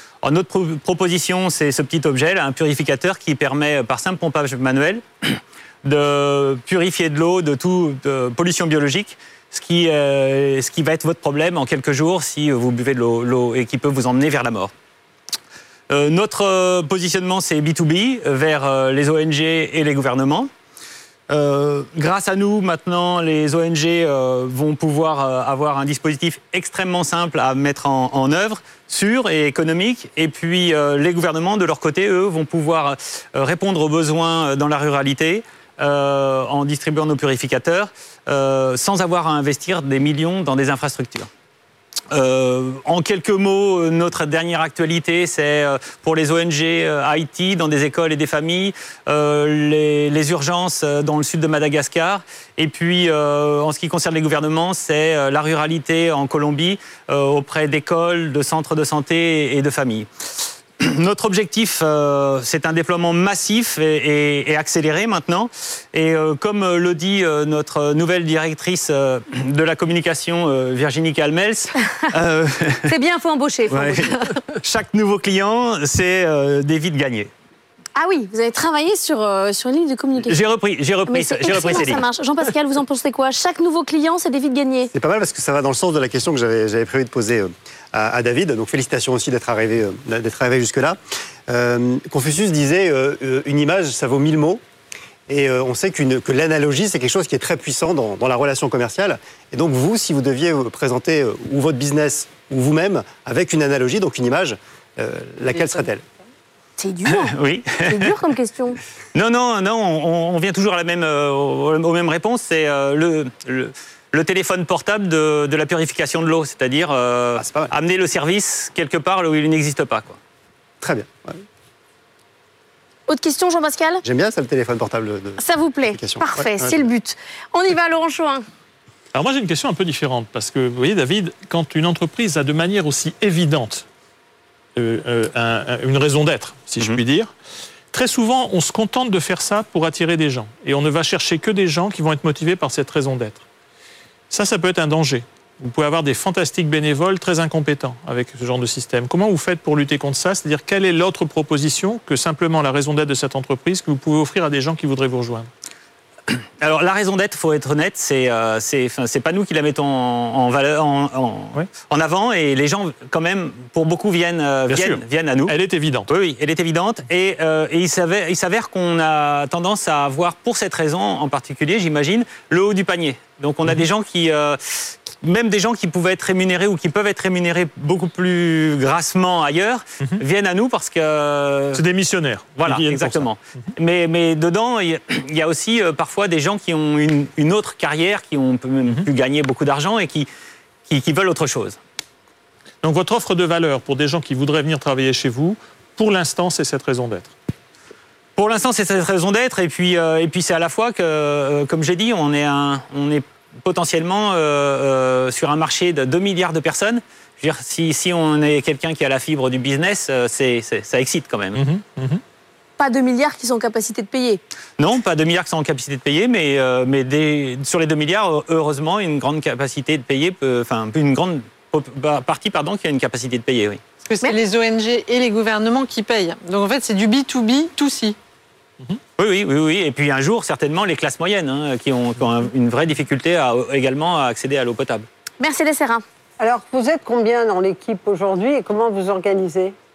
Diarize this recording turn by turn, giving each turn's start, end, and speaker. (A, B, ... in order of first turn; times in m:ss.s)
0:00.2-0:14.7 A
0:15.9-0:20.5 A
0:21.3-0:41.3 A
0:42.1-1:00.1 A
1:00.8-1:12.9 A
1:12.9-1:14.2 B
1:13.7-1:14.1 A
1:14.6-1:17.3 A
1:18.0-1:20.4 B
1:20.3-1:22.0 A
1:21.1-1:24.9 B
1:24.9-1:34.6 C
1:35.3-1:46.0 C
1:46.8-1:48.8 B
1:47.1-1:48.1 A
1:49.2-2:00.2 A
1:57.4-1:57.7 C
2:00.8-2:01.4 C
2:03.1-2:04.0 B
2:04.0-2:06.8 C
2:05.4-2:08.4 B
2:09.1-2:13.8 D
2:14.8-2:17.3 D
2:17.9-2:23.4 D
2:24.3-2:35.5 D
2:36.3-2:45.6 A
2:44.7-2:46.1 D
2:46.1-3:01.8 A
3:01.7-3:03.7 D
3:02.6-3:10.3 A
3:10.9-3:11.8 A
3:12.8-3:17.4 D
3:18.4-3:31.6 A
3:31.6-3:32.2 D
3:32.8-3:34.4 B
3:34.8-3:43.8 A
3:44.0-3:48.2 E
3:49.2-3:55.1 A
3:55.4-3:56.0 B
3:56.4-3:59.8 F